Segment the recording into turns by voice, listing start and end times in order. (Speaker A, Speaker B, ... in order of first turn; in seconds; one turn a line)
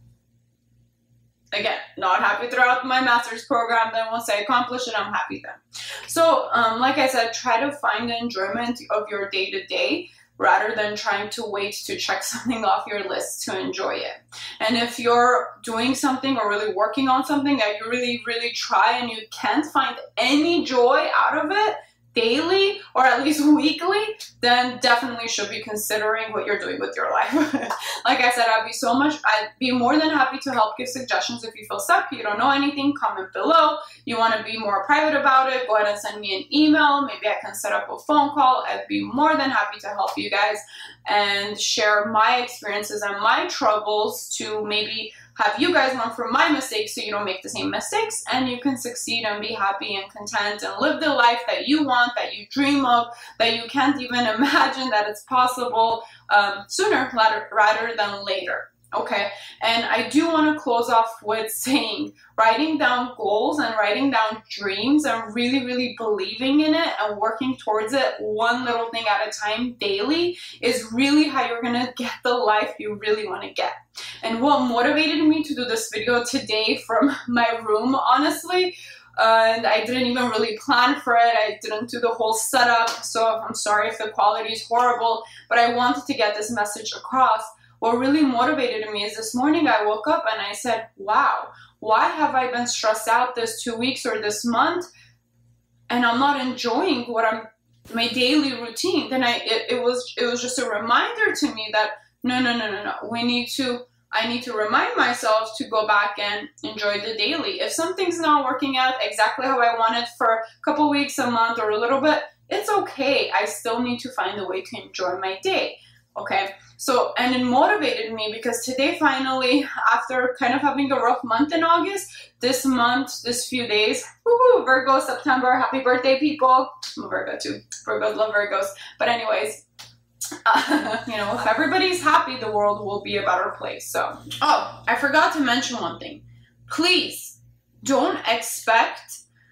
Speaker A: 1.5-94.9
Speaker A: 95.9-129.6
Speaker A: 130.4-139.2